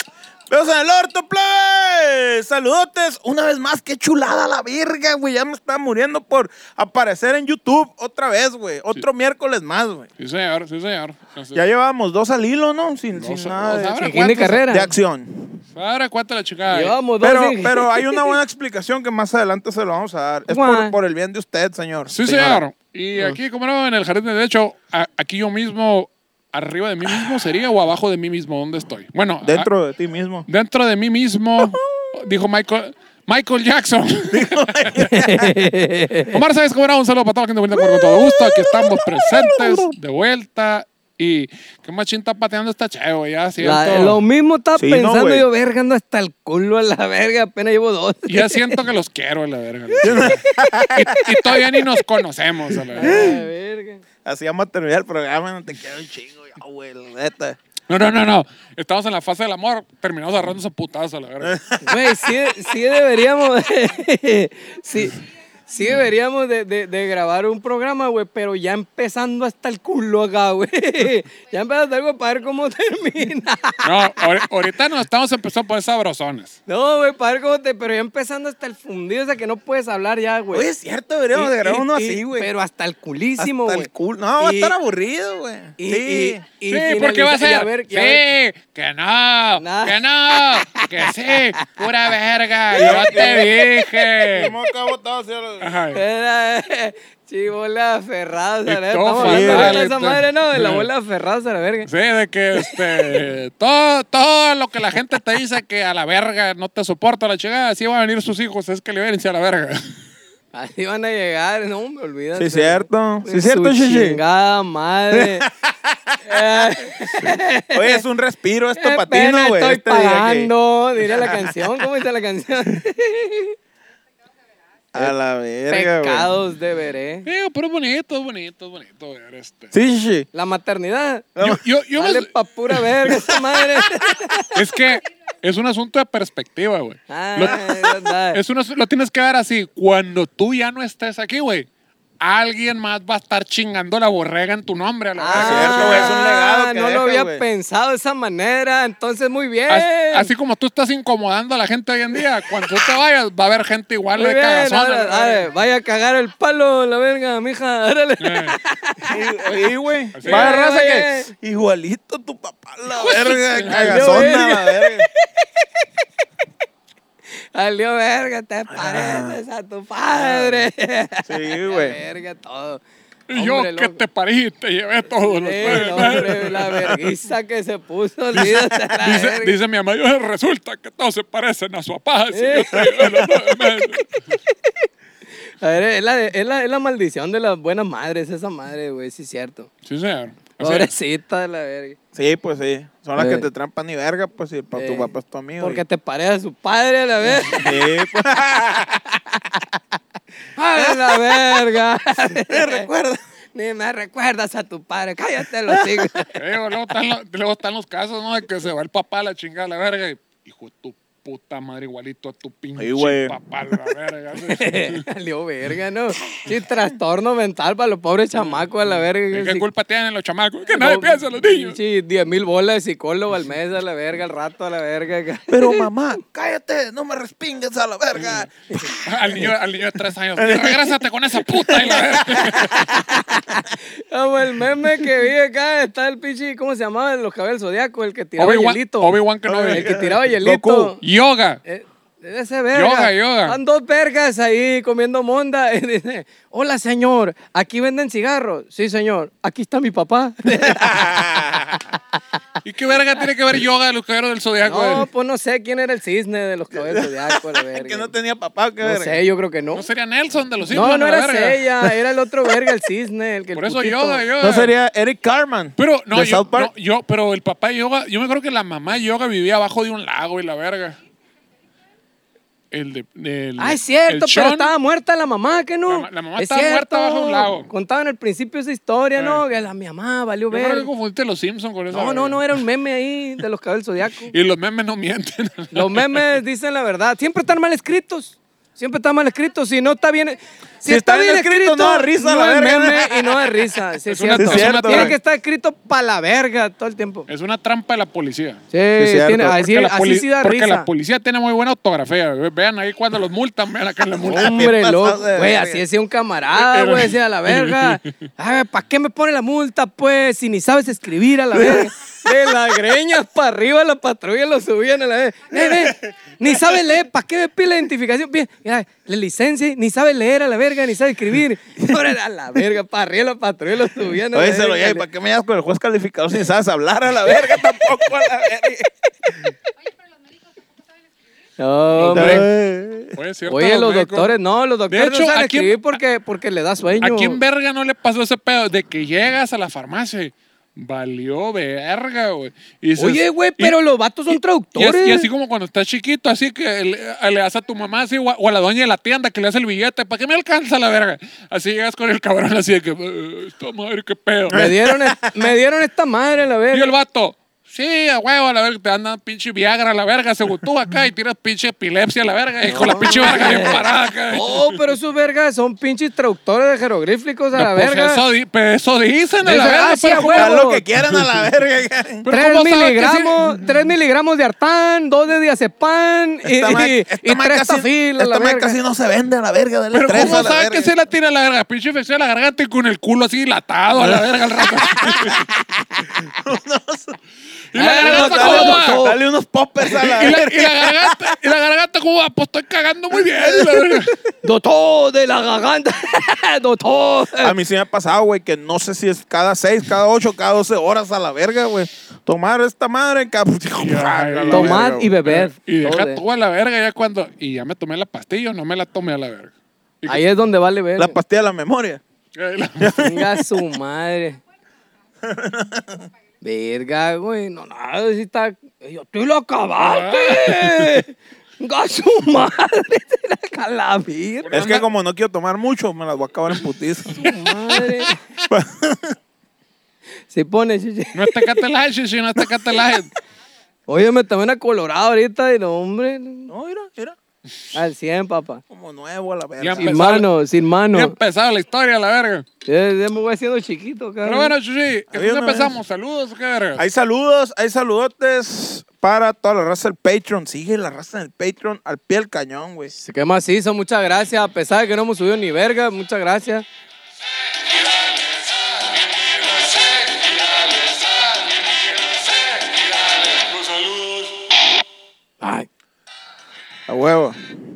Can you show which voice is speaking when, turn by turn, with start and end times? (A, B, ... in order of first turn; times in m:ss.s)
0:00.5-0:10.1 A
0:10.2-0:11.6 B
0:11.5-0:15.6 A
0:13.2-0:14.6 B
0:14.0-0:14.9 C
0:15.7-0:17.0 B
0:16.7-0:18.4 C
0:17.2-0:22.6 A
0:20.5-0:21.0 C
0:22.1-0:29.7 B
0:29.4-0:30.5 A
0:30.5-0:35.0 B
0:34.3-0:35.6 A
0:35.0-0:36.4 C
0:36.3-0:44.2 B
0:37.8-0:39.9 A
0:43.6-0:48.8 C
0:44.8-0:45.5 A
0:48.3-0:53.3 B
0:50.0-0:51.3 A
0:52.9-0:53.4 A
0:53.0-0:54.0 C
0:54.2-0:57.6 A
0:57.9-1:01.6 B
1:01.4-1:02.4 A
1:01.8-1:14.4 C
1:13.8-1:16.6 B
1:16.7-1:20.7 C
1:20.5-1:22.5 A
1:21.3-1:23.9 C
1:23.4-1:26.4 A
1:24.4-1:24.8 C
1:25.8-1:28.2 C
1:26.7-1:34.5 B
1:29.6-1:31.8 C
1:32.8-1:33.6 A
1:32.9-1:33.8 C
1:34.3-1:35.7 A
1:35.6-1:36.0 B
1:35.9-1:41.9 C
1:38.7-1:40.9 B
1:39.2-1:39.9 A
1:41.9-1:49.9 B
1:42.6-1:43.2 C
1:50.5-1:55.4 C
1:52.4-1:54.2 A
1:55.1-1:56.4 A
1:56.2-1:58.0 C
1:57.1-2:00.5 A
1:58.8-2:03.6 C
2:01.0-2:01.7 A
2:04.9-2:06.3 A
2:05.7-2:07.3 C
2:07.3-2:09.7 B
2:09.7-2:10.3 A
2:10.3-2:11.3 C
2:11.4-2:11.6 A
2:11.4-2:12.8 B
2:12.0-2:14.6 C
2:13.1-2:14.2 A
2:14.5-2:21.7 B
2:17.1-2:18.4 C
2:22.2-2:26.1 B
2:25.2-2:30.3 C
2:25.3-2:27.4 A
2:29.7-2:35.5 B
2:34.2-2:39.2 C
2:38.2-2:38.6 B
2:39.0-2:45.1 A
2:40.2-2:40.6 B
2:40.3-2:41.3 C
2:42.9-2:44.3 B
2:43.7-2:45.9 C
2:47.5-2:52.8 C
2:48.7-2:49.4 A
2:51.3-2:52.0 A
2:53.3-2:56.8 B
2:53.3-2:54.0 C
2:55.3-2:59.6 C
2:55.7-2:57.0 A
2:58.4-2:58.9 A
2:59.0-3:04.2 B
3:02.3-3:03.3 C
3:02.8-3:03.4 A
3:05.5-3:09.7 C
3:09.8-3:10.9 B
3:10.6-3:12.0 C
3:12.1-3:15.8 A
3:13.2-3:13.5 C
3:14.8-3:17.9 C
3:17.4-3:19.4 A
3:20.6-3:22.9 C
3:20.8-3:21.6 A
3:22.5-3:23.2 A
3:23.6-3:26.3 C
3:25.7-3:26.1 A
3:26.3-3:35.0 B
3:32.8-3:33.4 A
3:34.4-3:39.7 C
3:39.3-3:41.8 B
3:40.7-3:45.9 C
3:45.5-3:49.5 A
3:49.0-3:52.8 B
3:50.4-3:53.6 A
3:53.4-3:59.2 C
3:58.4-3:59.9 B
3:59.5-4:01.0 A
3:59.7-4:01.0 C
4:01.0-4:01.6 B
4:01.6-4:11.0 C
4:02.7-4:03.6 B
4:10.5-4:11.8 A
4:12.6-4:15.1 B
4:14.6-4:18.1 C
4:16.7-4:19.2 A
4:18.8-4:19.8 C
4:19.7-4:21.6 B
4:20.7-4:24.3 C
4:23.6-4:24.7 B
4:24.4-4:26.7 A
4:25.8-4:31.0 B
4:32.7-4:34.7 B
4:33.6-4:40.9 C
4:35.9-4:37.7 B
4:39.2-4:39.4 B
4:40.5-4:42.6 B
4:41.9-4:44.3 C
4:44.3-4:46.3 B
4:45.7-4:57.3 C
4:50.8-4:53.4 A
4:54.1-4:55.2 B
4:54.4-4:55.2 A
4:57.3-4:58.6 B
4:58.7-5:00.9 C
4:59.0-4:59.6 A
4:59.5-5:04.6 B
5:04.2-5:05.8 A
5:04.3-5:25.0 C
5:06.5-5:08.1 B
5:11.5-5:12.7 A
5:15.5-5:16.8 A
5:24.3-5:28.9 A
5:31.6-5:32.5 C
5:32.0-5:32.5 B
5:32.1-5:33.2 A
5:33.2-5:34.4 B
5:33.5-5:37.4 C
5:34.9-5:36.0 B
5:37.0-5:43.8 B
5:43.0-5:45.3 C
5:44.3-5:54.7 B
5:54.5-5:55.5 A
5:54.5-5:56.9 C
5:56.7-6:04.8 B
6:02.7-6:08.2 C
6:07.6-6:10.5 B
6:09.4-6:10.8 C
6:10.1-6:12.3 A
6:12.2-6:13.5 B
6:12.3-6:18.8 C
6:16.4-6:20.9 A
6:19.9-6:25.4 B
6:24.0-6:27.2 A
6:27.7-6:29.0 B
6:27.8-6:29.2 C
6:28.0-6:31.4 A
6:29.9-6:34.2 B
6:33.1-6:34.2 A
6:34.4-6:37.6 C
6:37.4-6:45.1 A
6:43.8-6:50.2 B
6:44.5-6:46.2 C
6:50.1-6:51.2 C
6:51.0-6:52.0 A
6:52.4-6:53.1 B
6:52.8-6:53.4 A
6:53.0-6:54.4 C
6:55.2-6:56.1 A
6:56.4-7:04.5 C
6:59.8-7:01.0 B
7:04.5-7:07.2 A
7:04.5-7:04.9 B
7:07.1-7:08.2 C
7:07.5-7:08.0 B
7:08.5-7:09.2 A
7:10.3-7:11.5 C
7:11.1-7:13.1 B
7:13.9-7:16.5 C
7:16.5-7:17.2 A
7:17.7-7:18.6 C
7:18.7-7:20.0 A
7:19.6-7:20.3 B
7:19.8-7:21.2 C
7:20.9-7:22.5 B
7:22.6-7:24.5 C
7:24.2-7:26.8 B
7:25.1-7:25.8 A
7:26.8-7:32.9 A
7:32.9-7:36.7 C
7:37.7-7:44.3 B
7:45.4-7:45.7 C
7:46.9-7:47.6 A